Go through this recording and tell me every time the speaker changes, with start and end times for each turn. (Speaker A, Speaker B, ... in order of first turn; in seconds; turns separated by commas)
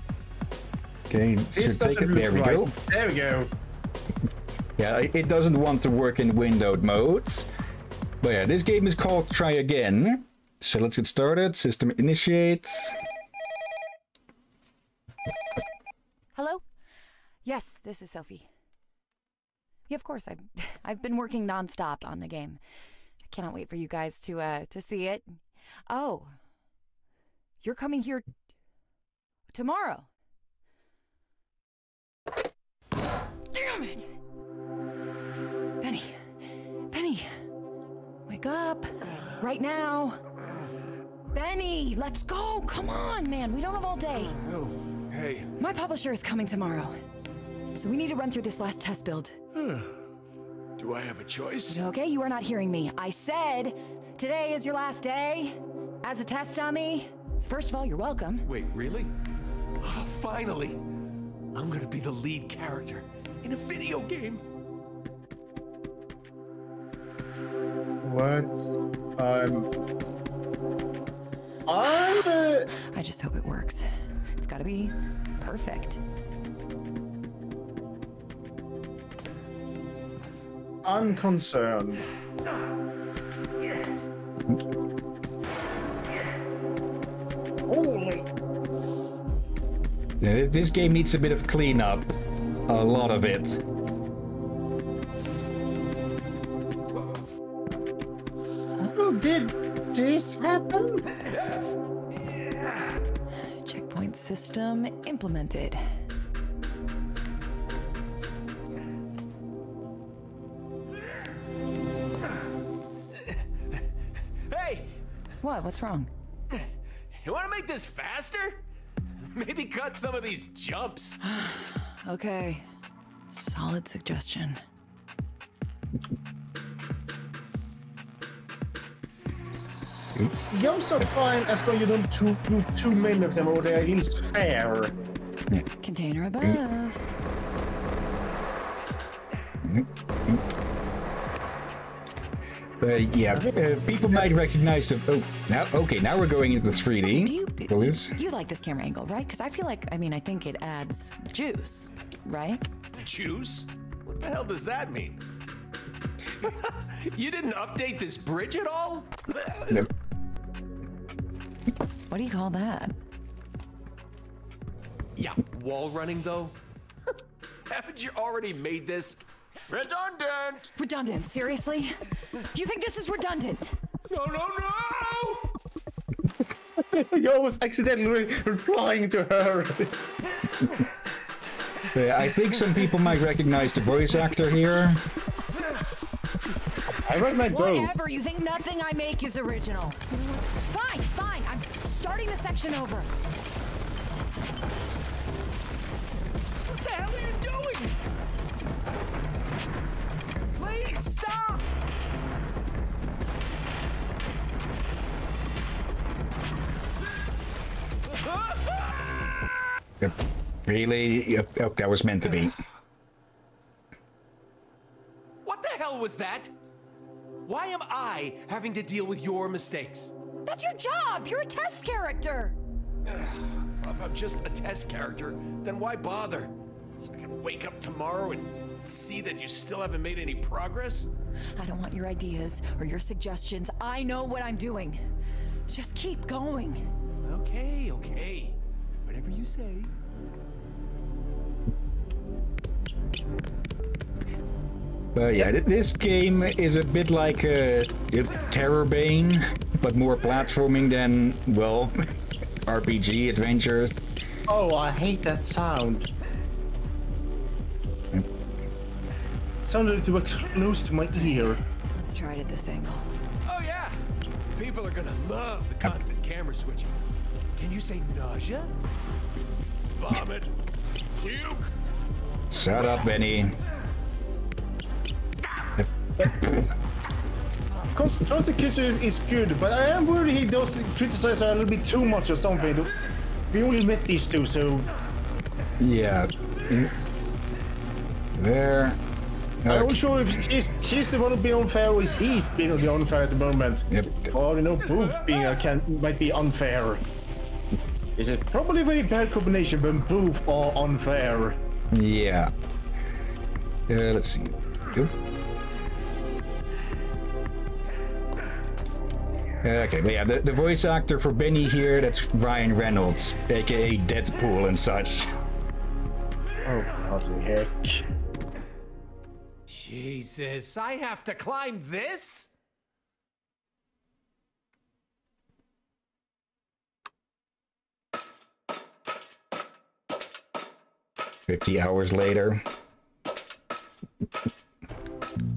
Speaker A: 1.1-2.7, Speaker B: 1.5-3.5, Speaker A: 4.8-7.5, Speaker A: 8.2-13.0, Speaker C: 16.4-16.6, Speaker C: 17.4-18.5, Speaker C: 19.9-22.6, Speaker C: 23.2-25.4, Speaker C: 25.9-26.3, Speaker C: 27.6-28.3, Speaker C: 29.5-30.1, Speaker C: 33.5-34.1, Speaker C: 35.8-36.2, Speaker C: 36.9-37.3, Speaker C: 38.3-40.2, Speaker C: 41.3-44.4, Speaker D: 44.4-45.5, Speaker C: 45.6-47.0, Speaker C: 47.7-49.4, Speaker D: 49.5-50.0, Speaker D: 50.8-51.9, Speaker C: 51.7-58.5, Speaker D: 58.5-59.1, Speaker D: 59.8-60.8, Speaker D: 61.5-64.4, Speaker B: 68.0-69.7, Speaker B: 71.7-72.7, Speaker C: 72.7-76.0, Speaker B: 80.8-82.1, Speaker B: 87.7-88.3, Speaker A: 90.2-92.1, Speaker A: 92.7-93.6, Speaker B: 98.8-101.1, Speaker C: 103.6-105.8, Speaker D: 114.5-114.9, Speaker C: 115.4-116.1, Speaker D: 117.2-118.6, Speaker D: 119.3-121.2, Speaker C: 121.2-122.7, Speaker C: 123.3-124.6, Speaker B: 130.5-135.0, Speaker C: 135.8-137.0, Speaker A: 139.6-140.4, Speaker A: 142.8-148.2, Speaker B: 143.3-143.6, Speaker C: 147.1-152.6, Speaker D: 152.9-155.2, Speaker D: 156.4-159.7, Speaker C: 162.1-162.9, Speaker D: 165.2-166.6, Speaker D: 167.7-170.7, Speaker C: 170.7-171.9, Speaker C: 172.5-173.8, Speaker D: 174.1-175.5, Speaker B: 176.8-180.0, Speaker A: 181.9-185.0, Speaker B: 187.1-187.9, Speaker C: 187.4-190.0, Speaker C: 190.6-193.1, Speaker D: 196.7-198.0, Speaker D: 200.5-201.7, Speaker D: 208.1-209.4, Speaker A: 210.0-212.6, Speaker D: 215.4-216.5, Speaker D: 217.4-220.2, Speaker C: 220.4-222.6, Speaker D: 223.1-231.1, Speaker C: 231.6-235.0, Speaker C: 235.7-236.8, Speaker D: 237.2-239.9, Speaker A: 245.2-252.1, Speaker A: 252.7-254.0, Speaker B: 254.5-256.1, Speaker B: 259.6-261.6, Speaker C: 261.9-263.1, Speaker D: 263.4-264.0, Speaker D: 264.6-266.9, Speaker D: 267.6-268.7, Speaker D: 269.9-270.6, Speaker D: 271.2-271.7, Speaker A: 272.5-273.6, Speaker A: 275.8-276.6, Speaker B: 277.9-282.9, Speaker B: 283.5-284.9, Speaker A: 285.8-286.9, Speaker A: 288.4-289.0, Speaker A: 289.6-290.1, Speaker B: 289.7-297.0, Speaker A: 293.9-294.3, Speaker B: 298.1-301.6, Speaker A: 301.9-302.5, Speaker A: 303.9-305.1, Speaker A: 309.6-315.3, Speaker B: 316.6-318.1, Speaker D: 319.7-322.5, Speaker A: 331.5-332.6